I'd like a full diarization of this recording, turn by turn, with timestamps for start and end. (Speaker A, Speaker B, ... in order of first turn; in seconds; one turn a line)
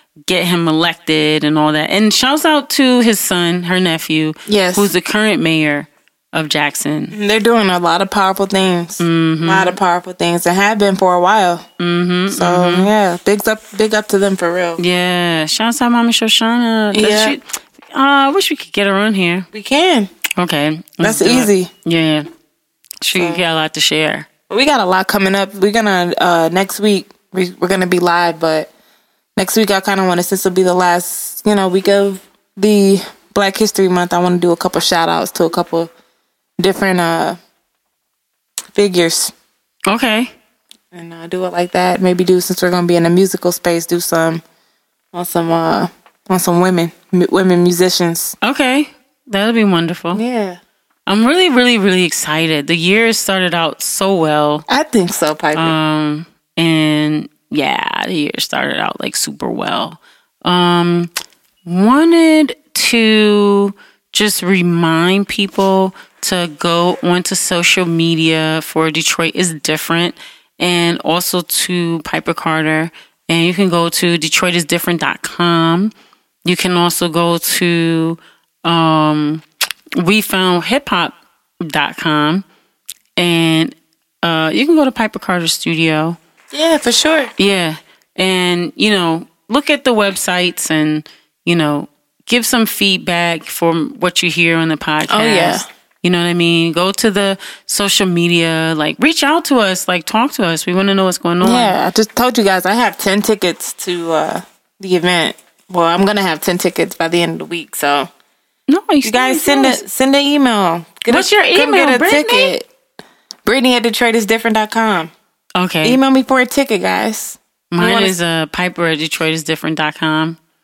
Speaker A: 0.2-7.2
Speaker B: 4.5-4.9
Speaker B: 7.1-11.7
Speaker A: 9.0-9.8
Speaker A: 11.8-12.9
Speaker B: 12.3-14.8
Speaker A: 14.8-19.5
Speaker B: 16.9-17.4
Speaker B: 19.5-20.1
Speaker A: 20.4-22.3
Speaker B: 21.0-21.7
Speaker A: 23.0-24.3
Speaker B: 23.1-23.4
Speaker B: 24.5-28.7
Speaker B: 29.4-35.9
Speaker B: 36.6-37.4
Speaker B: 38.7-39.3
Speaker A: 39.9-40.3
Speaker B: 40.9-44.4
Speaker B: 45.1-48.3
Speaker A: 48.4-50.2
Speaker B: 50.1-50.6
Speaker A: 51.1-54.6
Speaker B: 54.7-55.7
Speaker A: 55.5-61.1
Speaker A: 61.6-75.9
Speaker A: 76.4-79.4
Speaker A: 80.0-82.4
Speaker A: 83.2-86.2
Speaker B: 86.5-87.3
Speaker A: 87.4-101.7
Speaker B: 95.1-95.6
Speaker B: 101.4-108.1
Speaker A: 108.7-109.8
Speaker B: 109.0-112.7
Speaker A: 111.1-112.6
Speaker B: 113.4-115.1
Speaker A: 115.5-116.0
Speaker B: 115.8-118.2
Speaker A: 117.7-120.4